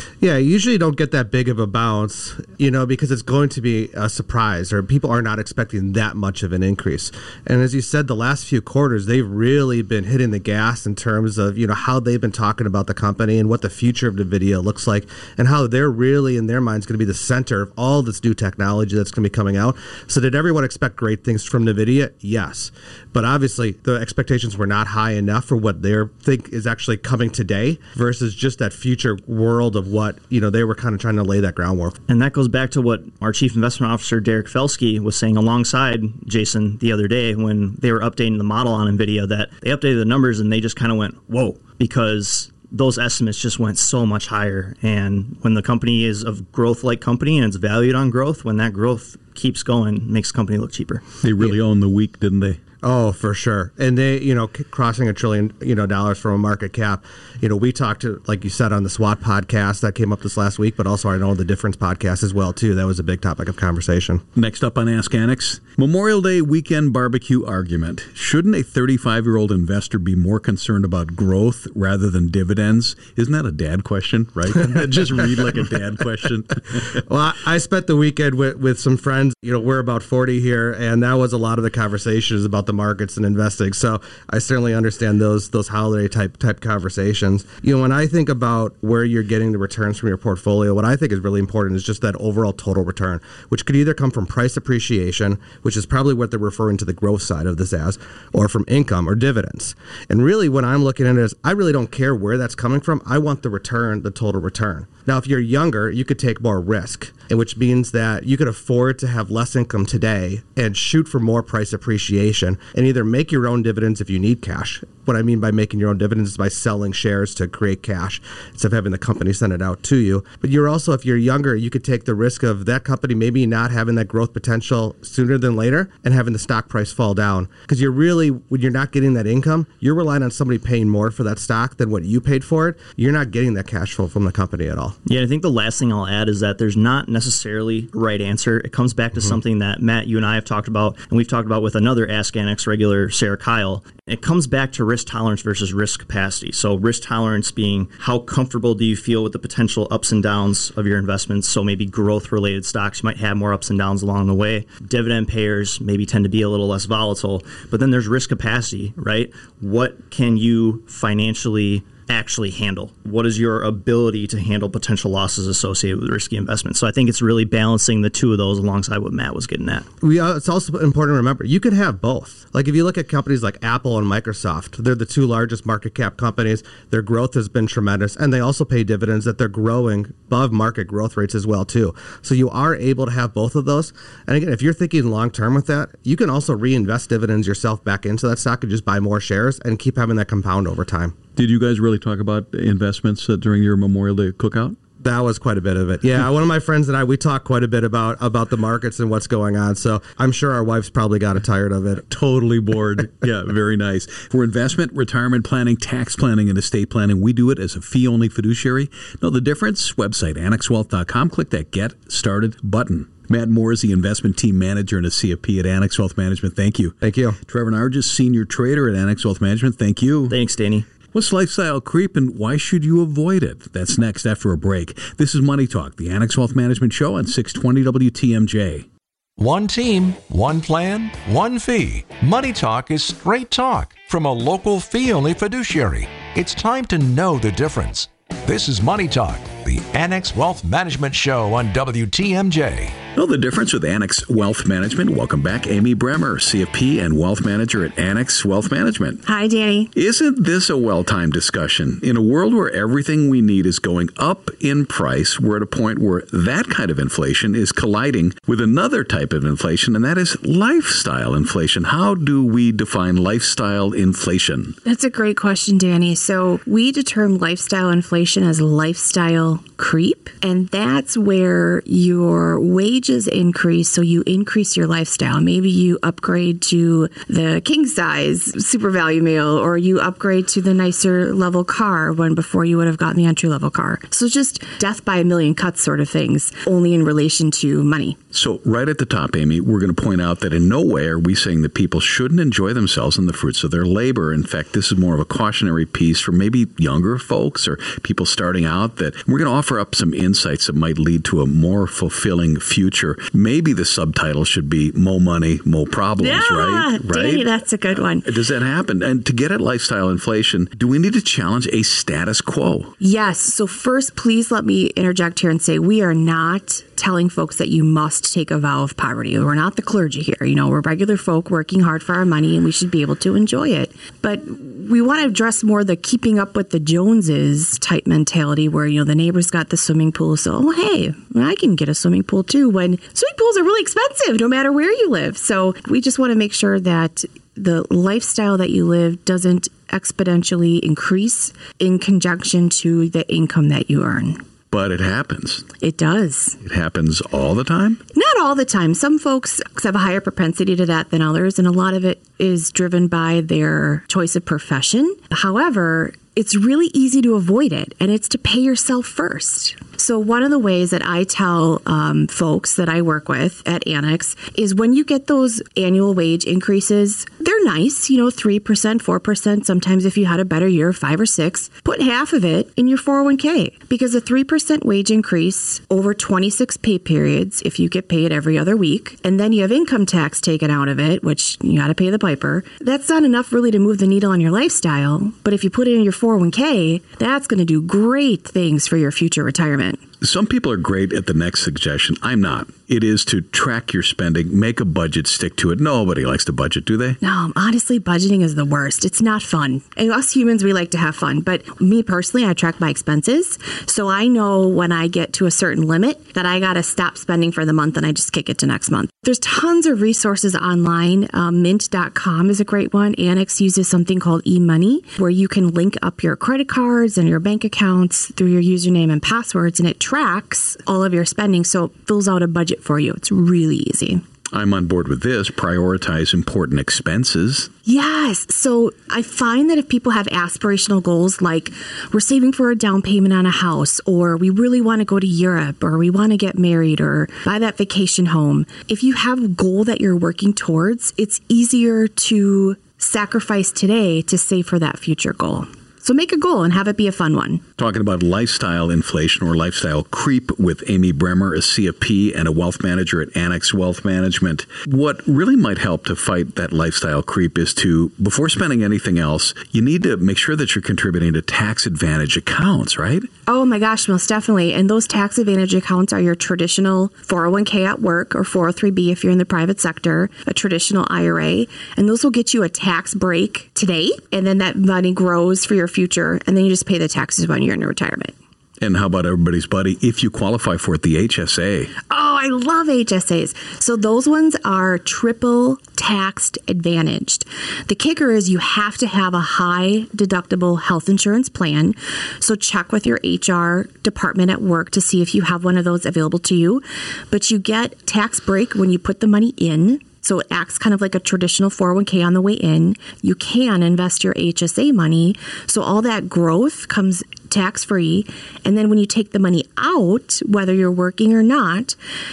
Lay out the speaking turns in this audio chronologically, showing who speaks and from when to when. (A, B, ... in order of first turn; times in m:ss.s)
0:00.2-0:32.0 A
0:32.1-0:51.1 B
0:51.2-0:52.6 C
0:52.8-1:04.2 A
1:04.3-1:17.0 C
1:17.0-2:15.0 A
2:15.0-2:49.9 B
2:50.0-3:11.2 A
3:11.4-3:14.8 C
3:15.0-3:22.0 A
3:22.0-3:40.4 C
3:37.0-3:37.4 A
3:40.3-3:40.9 B
3:41.1-3:48.9 C
3:49.4-4:03.0 D
4:03.1-4:09.2 C
4:09.2-4:09.9 E
4:09.9-4:24.8 C
4:24.8-4:48.2 E
4:48.3-5:12.9 C
5:06.2-5:08.3 E
5:13.0-5:44.4 E
5:44.7-5:45.7 C
5:45.8-5:46.6 E
5:46.6-5:48.0 C
5:48.1-6:30.0 E
6:30.2-6:37.2 C
6:37.2-7:04.2 E
7:04.5-7:07.7 C
7:07.8-7:27.6 E
7:27.8-7:43.3 C
7:43.5-7:58.3 E
7:58.8-8:01.9 C
8:02.1-8:32.0 E